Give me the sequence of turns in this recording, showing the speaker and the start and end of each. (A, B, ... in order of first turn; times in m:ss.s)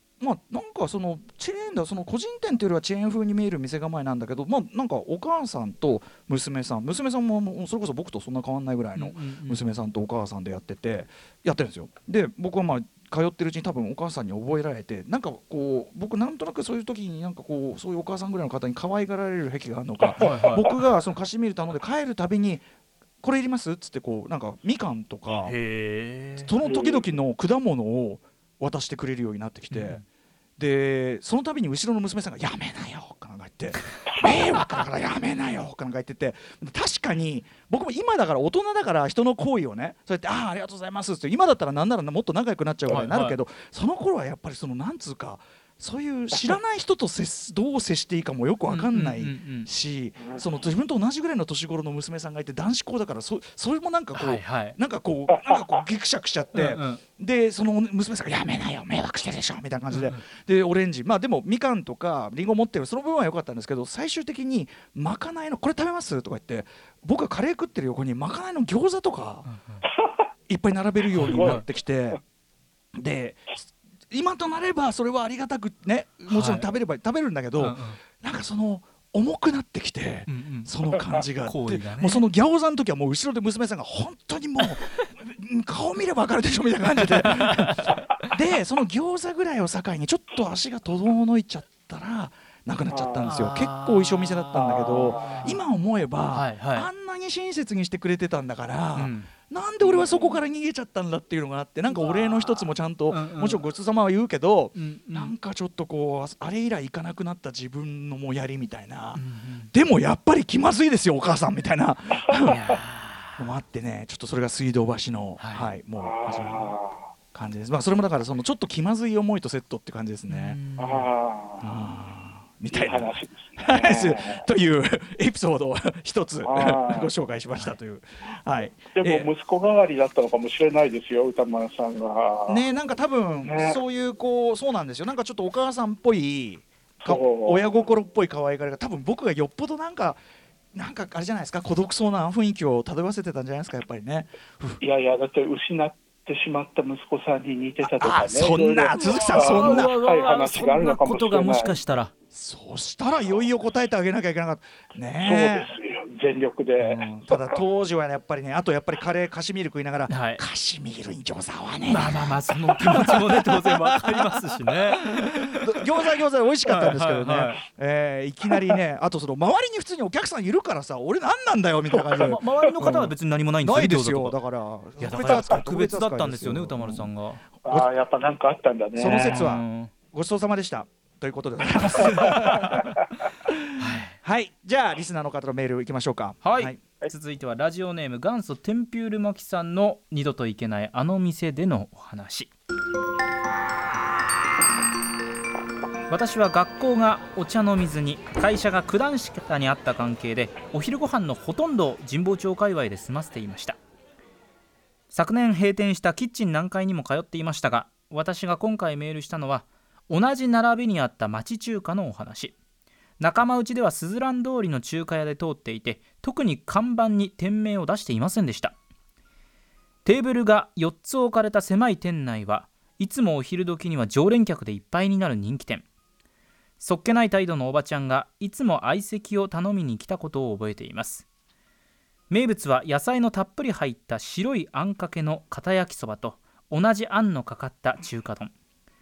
0:00.2-0:22.6 A
0:09.0-0:09.6 B
0:20.0-0:20.3 C
0:20.2-0:20.7 B
0:23.2-0:25.6 A
0:25.4-0:26.5 B
0:26.4-0:30.0 A
0:26.6-0:27.0 C
0:29.7-0:30.0 B
0:30.6-1:09.5 A
0:34.1-0:34.3 C
0:42.9-0:43.4 B
0:48.7-0:49.7 B
0:50.2-0:50.4 C
0:54.1-0:54.8 B
0:55.3-0:55.6 C
0:56.5-0:57.0 B
0:59.9-1:00.2 B
1:09.4-1:09.8 B
1:10.0-1:10.3 C
1:10.5-1:12.2 A
1:11.1-1:11.6 B
1:11.2-1:12.2 C
1:12.9-1:52.6 A
1:16.3-1:16.7 B
1:17.6-1:18.0 B
1:20.3-1:20.7 B
1:21.4-1:22.2 B
1:24.6-1:25.1 B
1:27.0-1:28.3 B
1:32.9-1:33.3 C
1:33.2-1:35.6 B
1:34.5-1:35.5 C
1:36.3-1:36.9 B
1:39.0-1:39.3 B
1:39.8-1:40.4 C
1:41.9-1:42.7 C
1:43.1-1:43.6 B
1:44.7-1:45.3 B
1:49.1-1:49.7 B
1:52.3-1:52.7 C
1:52.4-1:53.5 B
1:53.4-1:56.7 A
1:55.4-1:55.7 B
1:56.0-1:57.0 C
1:57.3-2:00.6 A
2:00.3-2:01.1 B
2:00.8-2:01.7 C
2:01.6-2:09.3 A
2:02.7-2:04.4 C
2:06.4-2:07.1 C
2:08.9-2:12.6 C
2:12.5-2:20.2 A
2:13.4-2:13.8 C
2:17.0-2:17.6 C
2:20.7-2:24.8 A
2:24.8-2:31.7 C
2:27.8-2:29.9 A
2:29.0-2:32.1 B
2:32.3-2:35.7 A
2:35.2-2:37.6 C
2:36.8-2:57.9 A
2:40.1-2:40.4 B
2:41.9-2:45.8 B
2:46.7-2:47.6 B
2:52.2-2:52.9 C
2:52.2-2:54.4 B
2:55.0-2:57.4 B
2:55.1-2:55.5 C
2:57.6-2:59.5 C
2:58.9-3:02.9 A
2:59.0-2:59.9 B
3:02.1-3:02.9 B
3:02.2-3:02.8 C
3:03.4-3:06.8 A
3:03.8-3:04.2 B
3:06.4-3:12.5 B
3:16.1-3:23.8 B
3:25.1-3:32.5 B
3:33.2-3:38.8 B
3:40.0-3:45.8 B
3:46.8-3:51.2 B
3:52.3-3:58.5 B